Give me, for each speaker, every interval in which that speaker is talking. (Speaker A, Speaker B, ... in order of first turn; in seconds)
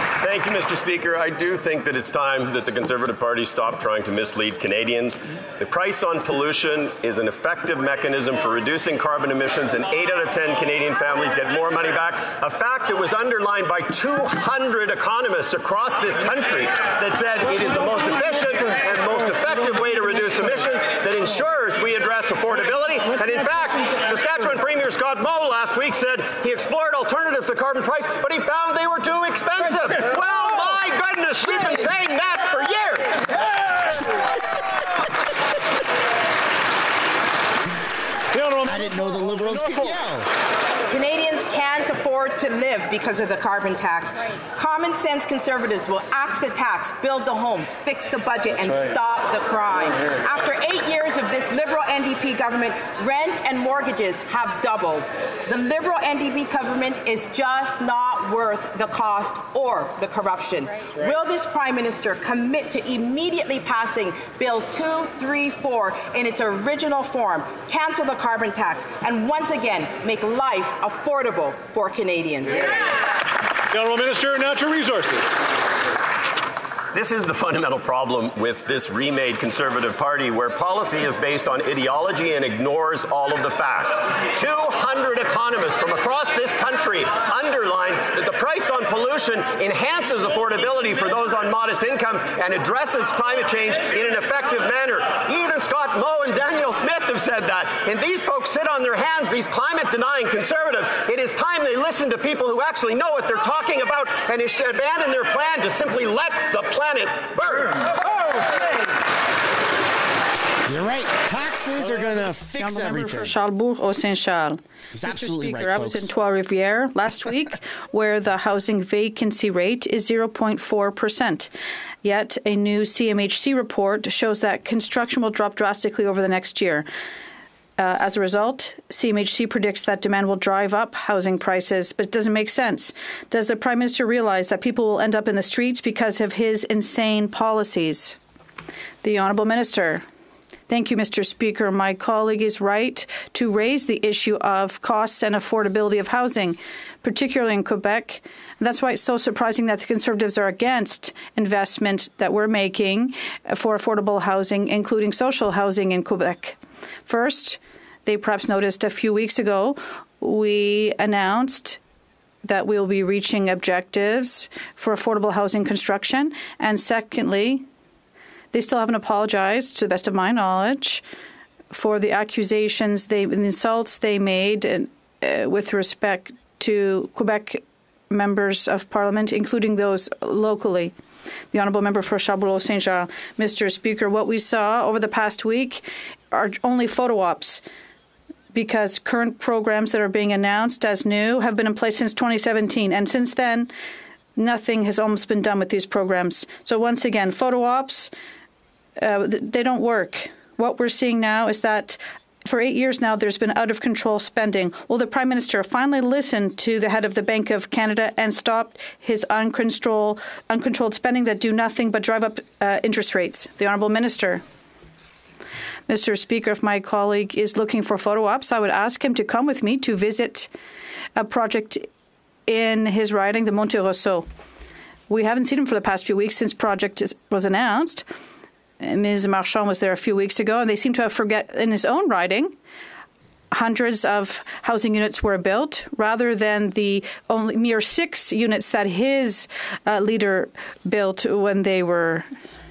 Speaker A: 0.2-33.3, 76.9-107.9
Speaker B: 38.3-40.0, 73.7-75.4
Speaker C: 38.6-40.3, 110.7-113.3, 114.9-116.1
Speaker D: 40.9-72.7
Speaker E: 112.5-121.5, 122.0-126.8, 127.8-138.2, 139.0-140.0, 140.7-161.8, 162.4-167.6, 168.5-171.0, 171.7-177.6, 178.1-180.9, 181.5-187.6, 188.5-193.7, 194.4-198.1, 199.0-214.4, 215.9-220.5, 221.2-221.8, 222.5-224.2, 225.1-228.0, 228.8-232.5, 233.5-242.3